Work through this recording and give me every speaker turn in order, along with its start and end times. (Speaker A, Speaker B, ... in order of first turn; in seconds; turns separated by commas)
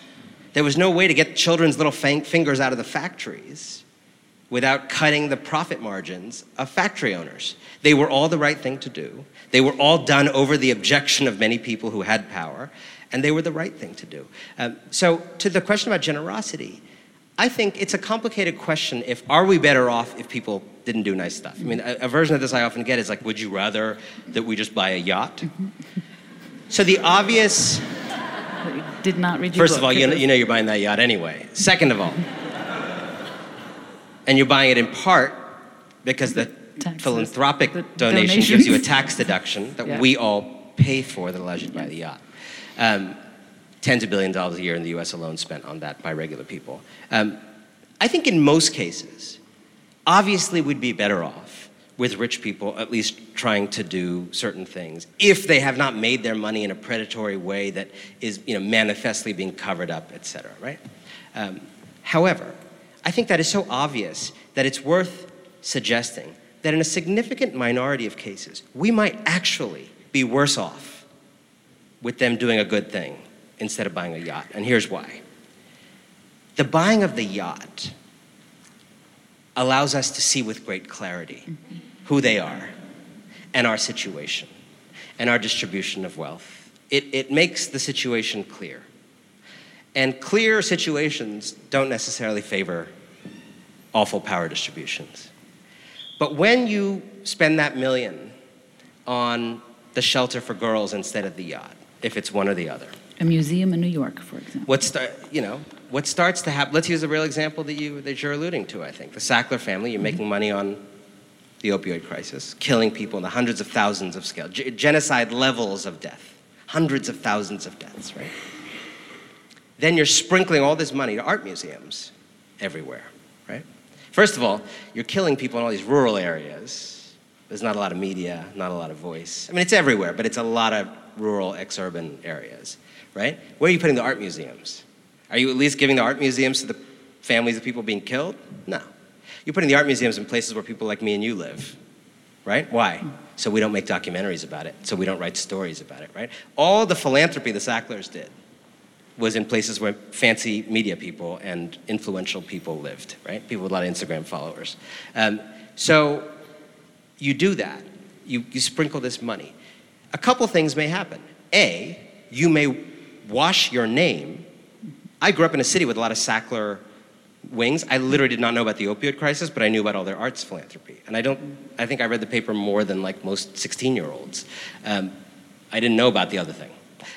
Speaker A: 0.5-3.8, Speaker A: 4.5-16.8, Speaker A: 17.4-25.5, Speaker A: 26.7-27.9, Speaker B: 28.6-30.2, Speaker A: 29.5-32.2, Speaker A: 34.2-42.2, Speaker B: 36.8-37.2, Speaker B: 37.8-38.8, Speaker A: 42.8-43.2, Speaker A: 43.8-47.4, Speaker A: 48.0-49.4, Speaker A: 50.0-60.8, Speaker A: 61.3-71.0, Speaker A: 72.0-75.2, Speaker A: 76.5-77.9, Speaker A: 79.5-81.5, Speaker A: 82.0-82.7, Speaker A: 83.5-84.5, Speaker A: 85.2-88.8, Speaker A: 89.9-92.9, Speaker A: 93.9-95.3, Speaker A: 96.2-98.3, Speaker A: 99.0-102.9, Speaker B: 103.2-104.7, Speaker A: 104.7-110.8, Speaker A: 111.6-118.3, Speaker A: 119.8-138.9, Speaker A: 139.4-141.8, Speaker A: 142.4-148.3, Speaker A: 149.2-156.3, Speaker A: 157.2-159.5, Speaker A: 160.1-164.4, Speaker A: 165.2-166.8, Speaker A: 167.4-175.1, Speaker A: 175.7-176.8